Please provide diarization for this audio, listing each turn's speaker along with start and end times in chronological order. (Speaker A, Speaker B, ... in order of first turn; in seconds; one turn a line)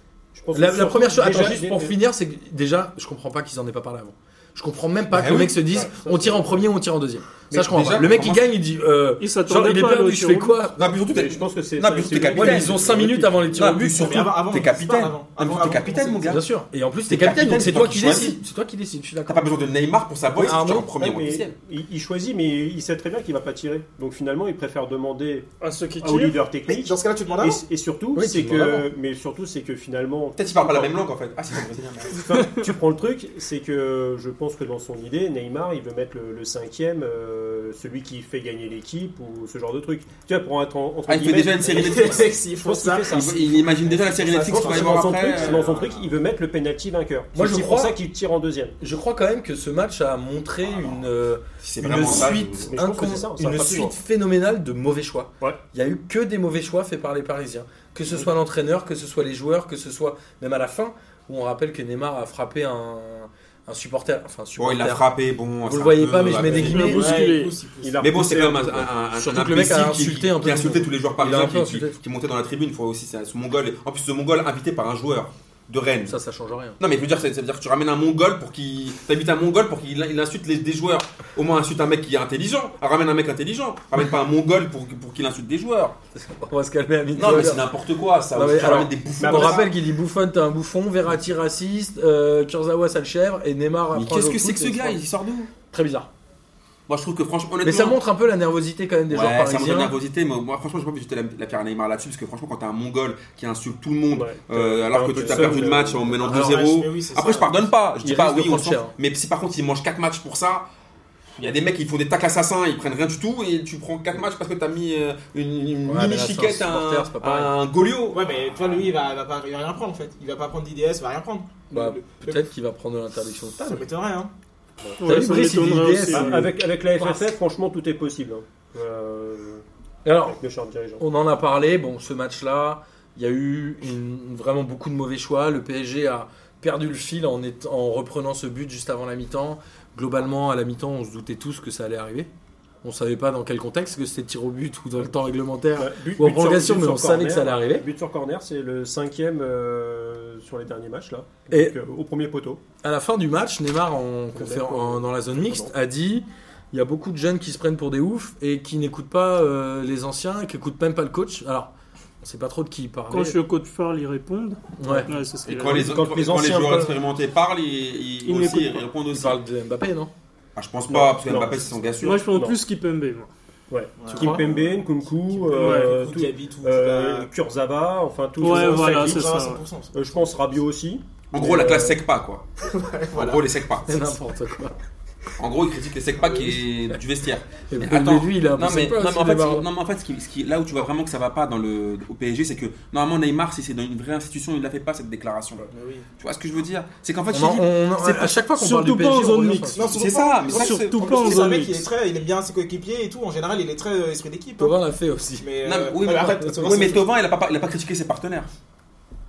Speaker A: 0.3-2.0
Speaker B: 0.5-10.8
Speaker C: 5.1-5.6
Speaker A: 5.7-6.5
Speaker A: 7.5-7.8
Speaker C: 7.5-8.5
Speaker D: 9.2-10.6
Speaker C: 10.8-12.8
Speaker A: 10.9-13.7
Speaker B: 12.3-14.3
Speaker C: 13.6-16.4
Speaker E: 13.9-16.4
Speaker B: 16.3-19.5
Speaker C: 17.1-18.4
Speaker C: 19.3-21.5
Speaker A: 20.4-25.5
Speaker B: 20.4-20.9
Speaker D: 25.6-26.4
Speaker A: 26.0-31.0
Speaker E: 26.7-27.6
Speaker B: 28.2-28.9
Speaker C: 30.4-32.3
Speaker A: 32.2-48.8
Speaker D: 32.3-32.6
Speaker C: 41.1-42.4
Speaker E: 41.6-43.2
Speaker C: 43.0-45.7
Speaker E: 44.0-46.0
Speaker B: 47.4-48.0
Speaker B: 48.8-65.0
Speaker C: 50.7-51.0
Speaker C: 51.6-52.7
Speaker A: 52.7-54.0
Speaker C: 64.6-67.0
Speaker B: 65.7-67.2
Speaker D: 66.5-67.5
Speaker E: 66.7-68.0
Speaker A: 67.8-68.9
Speaker C: 68.0-76.2
Speaker B: 69.2-72.0
Speaker B: 76.1-76.8
Speaker C: 76.8-86.0
Speaker B: 86.2-87.7
Speaker C: 87.2-89.7
Speaker B: 88.3-95.0
Speaker A: 89.2-89.7
Speaker C: 93.9-95.5
Speaker B: 95.7-96.1
Speaker C: 96.9-98.0
Speaker B: 97.6-99.9
Speaker C: 99.1-110.7
Speaker A: 104.1-106.4
Speaker E: 106.2-107.7
Speaker B: 108.0-108.9
Speaker C: 111.4-118.2
Speaker B: 115.9-117.5
Speaker E: 118.1-122.5
Speaker B: 121.7-123.8
Speaker E: 123.7-124.3
Speaker D: 125.0-126.5
Speaker B: 125.0-127.3
Speaker A: 126.1-129.7
Speaker B: 130.1-130.4
Speaker A: 130.2-131.1
Speaker B: 131.0-142.3
Speaker B: 142.8-147.8
Speaker A: 145.8-152.6
Speaker B: 151.5-151.8
Speaker B: 152.8-163.4
Speaker A: 154.3-155.7
Speaker D: 163.1-165.9
Speaker B: 164.8-165.1
Speaker C: 165.4-169.4
Speaker A: 165.7-167.0
Speaker D: 168.2-168.8
Speaker B: 169.1-170.1
Speaker C: 170.6-172.2
Speaker A: 170.9-172.6
Speaker D: 172.0-173.3
Speaker A: 173.7-179.4
Speaker E: 174.0-174.6
Speaker B: 174.2-174.4
Speaker E: 175.3-177.3
Speaker D: 175.5-175.9
Speaker D: 178.4-179.6
Speaker E: 178.4-180.2
Speaker A: 179.9-182.0
Speaker C: 181.3-182.4
Speaker E: 182.6-183.4
Speaker C: 183.1-184.1
Speaker B: 183.9-184.7
Speaker C: 185.4-198.4
Speaker B: 187.7-189.7
Speaker E: 195.7-196.1
Speaker B: 197.3-200.0
Speaker D: 198.6-201.9
Speaker E: 199.8-204.8
Speaker C: 199.9-201.4
Speaker B: 204.6-205.5
Speaker E: 205.4-207.1
Speaker C: 205.6-208.5